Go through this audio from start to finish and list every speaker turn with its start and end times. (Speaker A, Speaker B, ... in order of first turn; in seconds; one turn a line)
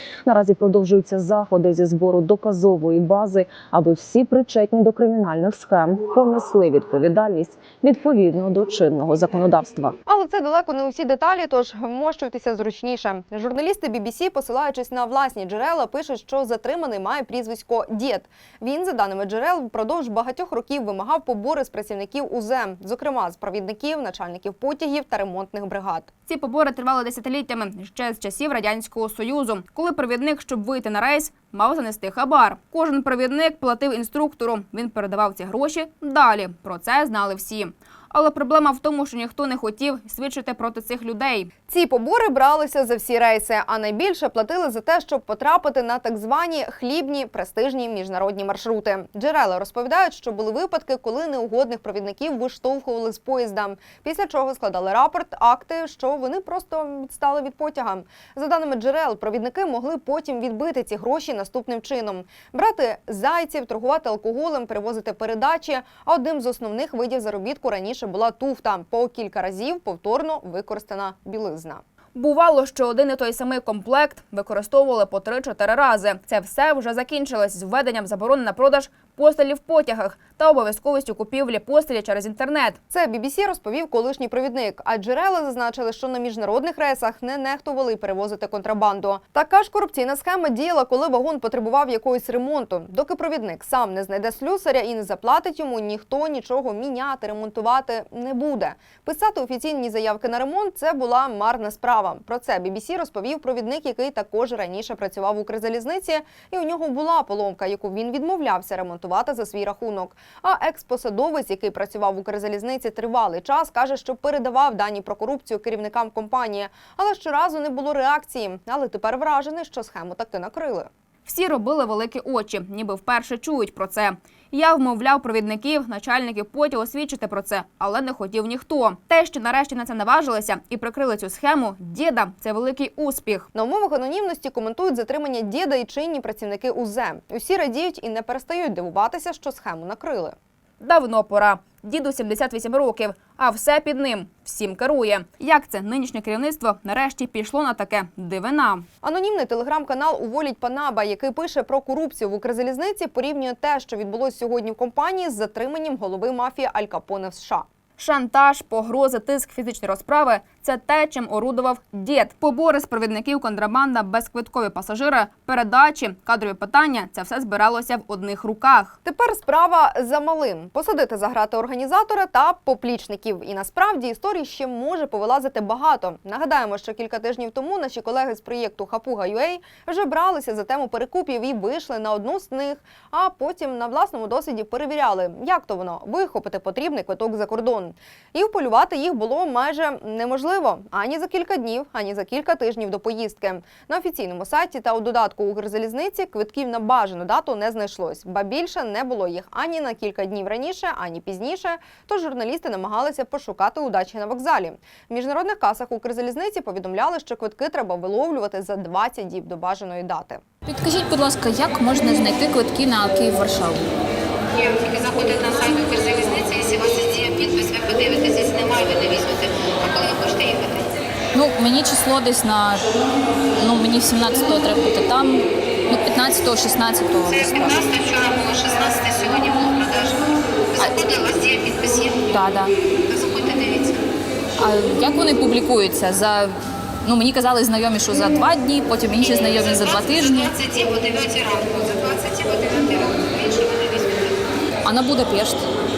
Speaker A: 0.3-9.9
Speaker B: 10.1-26.1
Speaker C: 26.3-41.5
Speaker B: 41.7-71.8
Speaker C: 72.2-82.8
Speaker B: 82.9-120.9
Speaker C: 121.3-133.5
Speaker B: 133.5-140.3
Speaker C: 140.8-148.9
Speaker B: 149.0-157.7
Speaker C: 158.0-169.0
Speaker B: 169.1-210.4
Speaker D: 210.7-213.9
Speaker E: 214.6-220.9
Speaker D: 221.4-222.9
Speaker D: 223.6-227.6
Speaker E: 227.3-232.5
Speaker E: 233.1-234.0
Speaker D: 234.6-240.4
Speaker E: 239.2-244.4
Speaker D: 244.8-245.7